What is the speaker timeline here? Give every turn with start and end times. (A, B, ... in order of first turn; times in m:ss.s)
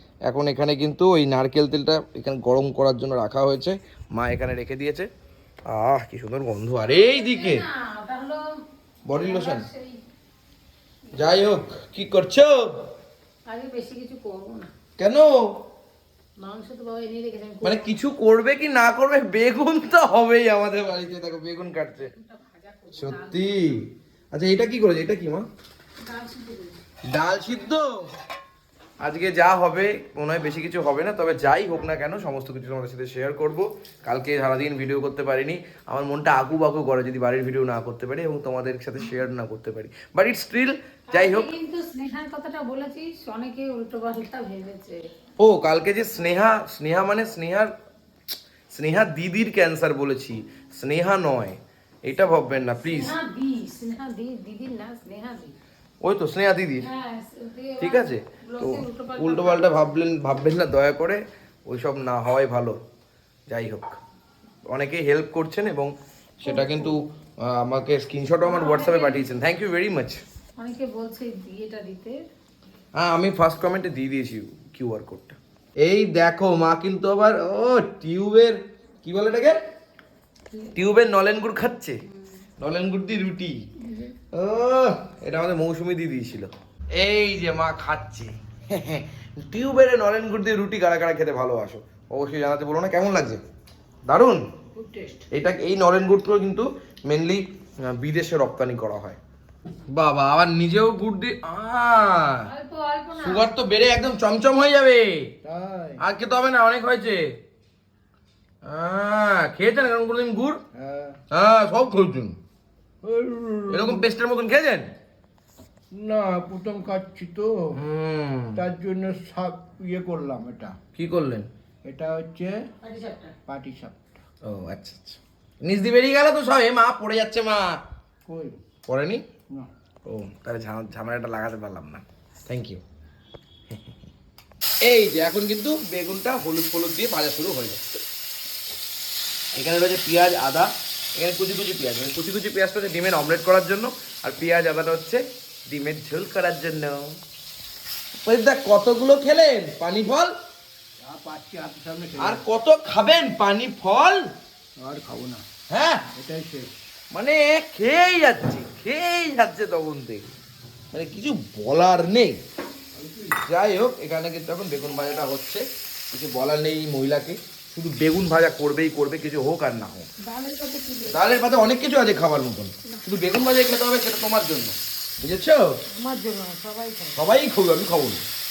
0:00.3-0:05.1 A
0:05.7-0:07.6 A
0:06.8-0:08.5 B
0:09.0-0:09.7 A
0:09.1-0:10.0 B
0:11.1-0:11.4 B
0:11.1-0:12.7 A
0:13.5-0:14.7 B
0:15.0-0:15.6 A
0:16.4-0:18.0 B
0:17.6-0:22.1 A
0:22.0-0:23.7 B
0:22.9-0:25.4 A
0:26.0-0:26.8 B
0:27.1-0:28.1 A
0:29.0-0:41.5 A
0:41.1-0:45.1 B
0:45.4-0:47.7 A
0:48.7-0:53.2 A
0:52.9-0:55.6 B
0:56.0-0:56.9 A
0:56.8-0:59.7 B
0:57.8-1:02.8 A
1:03.5-1:04.0 A
1:04.7-1:10.2 A
1:06.4-1:07.0 B
1:08.4-1:09.2 B
1:10.6-1:12.2 B
1:13.0-1:19.6 A
1:20.7-1:22.0 A
1:22.6-1:23.6 A
1:23.8-1:24.1 B
1:24.3-1:33.4 A
1:34.1-1:34.4 A
1:34.7-1:35.2 C
1:35.3-1:39.2 A
1:39.9-1:42.5 A
1:42.4-1:43.5 B
1:43.1-1:45.3 A
1:45.4-1:46.0 C
1:46.0-1:47.4 A
1:48.6-1:50.6 A
1:50.7-1:51.2 C
1:51.3-1:52.4 A
1:53.0-1:54.0 C
1:53.7-1:54.9 A
1:55.9-1:57.8 C
1:57.7-1:58.6 A
1:58.5-2:00.8 C
2:00.9-2:01.5 A
2:01.8-2:02.6 C
2:02.8-2:03.3 B
2:03.5-2:04.2 C
2:04.4-2:07.8 A
2:08.2-2:08.6 C
2:08.9-2:09.2 A
2:10.1-2:12.8 A
2:14.8-2:17.8 A
2:19.5-2:27.2 A
2:28.2-2:30.3 A
2:31.0-2:32.4 C
2:32.2-2:34.2 A
2:34.8-2:35.4 C
2:35.7-2:36.0 A
2:36.1-2:36.8 C
2:37.1-2:40.3 A
2:40.9-2:42.4 A
2:43.0-2:43.4 C
2:43.4-2:50.1 A
2:50.2-2:51.3 B
2:51.1-2:55.7 A
2:56.0-2:57.2 B
2:57.2-2:58.2 A